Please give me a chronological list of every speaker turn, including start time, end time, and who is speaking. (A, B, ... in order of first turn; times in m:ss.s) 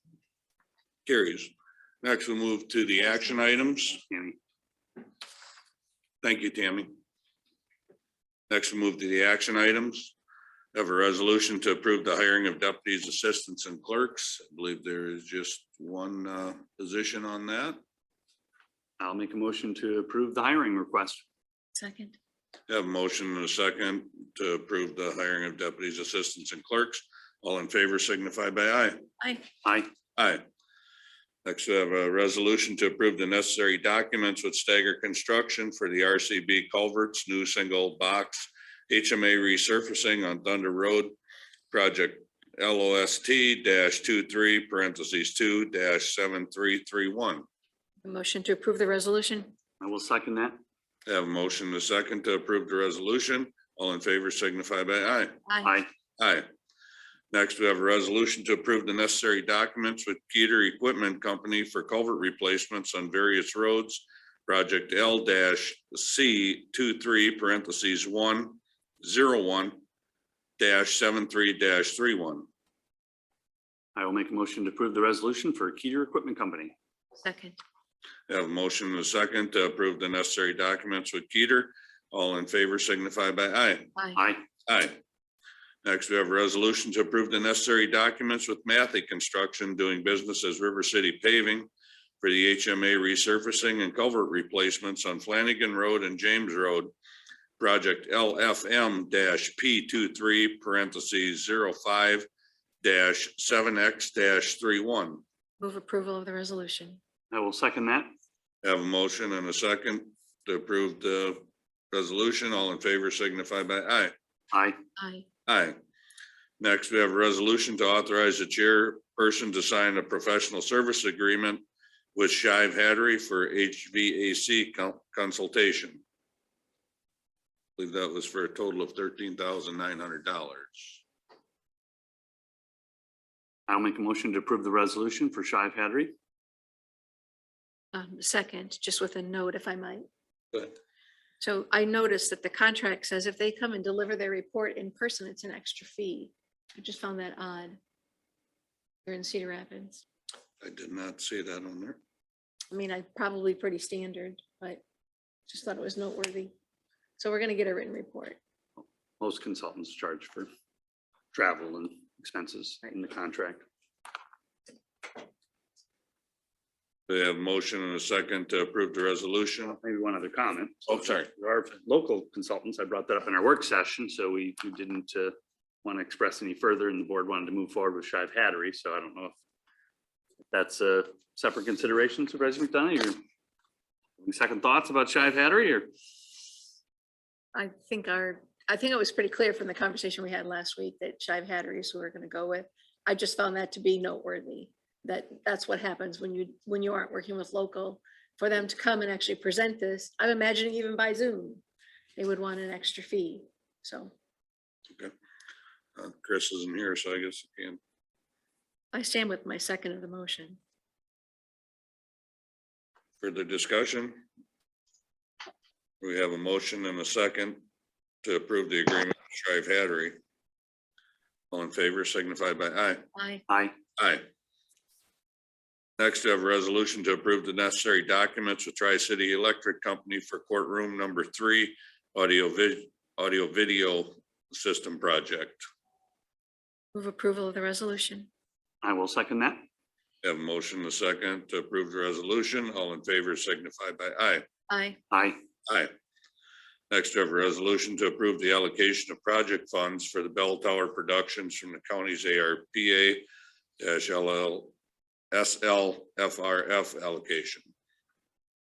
0:01.0-0:01.5 A
0:02.0-0:04.0 A
0:04.1-0:04.4 B
0:06.2-0:06.9 A
0:08.5-0:10.1 A
0:10.7-0:17.8 A
0:19.0-0:21.2 B
0:21.8-0:22.2 C
0:22.7-0:29.0 A
0:29.6-0:29.9 B
0:30.2-0:30.4 A
0:31.4-0:41.2 A
0:41.7-0:47.4 A
0:48.0-0:49.5 C
0:49.8-0:50.6 B
0:51.0-0:55.4 A
0:55.5-0:55.7 C
0:55.6-0:55.9 B
0:56.2-0:56.5 A
0:57.3-1:09.8 A
1:10.6-1:12.5 A
1:14.0-1:16.7 B
1:17.2-1:17.6 C
1:18.3-1:23.9 A
1:24.1-1:24.4 B
1:24.6-1:25.0 A
1:25.8-1:31.7 A
1:32.2-1:36.9 A
1:37.6-1:42.3 A
1:42.8-1:45.2 A
1:45.6-1:47.0 C
1:47.3-1:48.1 B
1:48.6-1:54.1 A
1:54.5-1:54.8 B
1:55.0-1:55.2 C
1:55.5-1:55.8 A
1:56.6-2:01.6 A
2:02.1-2:06.0 A
2:07.8-2:11.0 A
2:13.7-2:16.1 B
2:17.9-2:20.0 C
2:21.4-2:27.8 C
2:29.0-2:30.0 C
2:30.6-2:32.0 A
2:32.7-2:34.8 C
2:35.5-2:36.5 C
2:37.2-2:38.4 C
2:38.8-2:40.5 B
2:41.3-2:43.6 B
2:47.1-2:49.8 A
2:49.7-2:59.3 B
2:50.9-2:51.3 A
3:00.5-3:03.2 B
3:04.2-3:05.9 B
3:07.5-3:21.6 C
3:22.2-3:24.1 C
3:26.0-3:27.8 A
3:28.9-3:30.6 C
3:33.2-3:34.2 A
3:36.0-3:37.6 A
3:38.2-3:40.2 A
3:41.5-3:43.0 A
3:43.2-3:43.4 C
3:43.5-3:43.7 B
3:44.0-3:44.2 A
3:46.0-3:55.6 A
3:56.9-3:58.3 C
3:58.8-3:59.6 B
4:00.2-4:04.4 A
4:04.7-4:05.0 C
4:05.1-4:05.4 B
4:05.7-4:05.9 A
4:06.9-4:13.2 A
4:13.8-4:14.7 A
4:15.3-4:17.7 A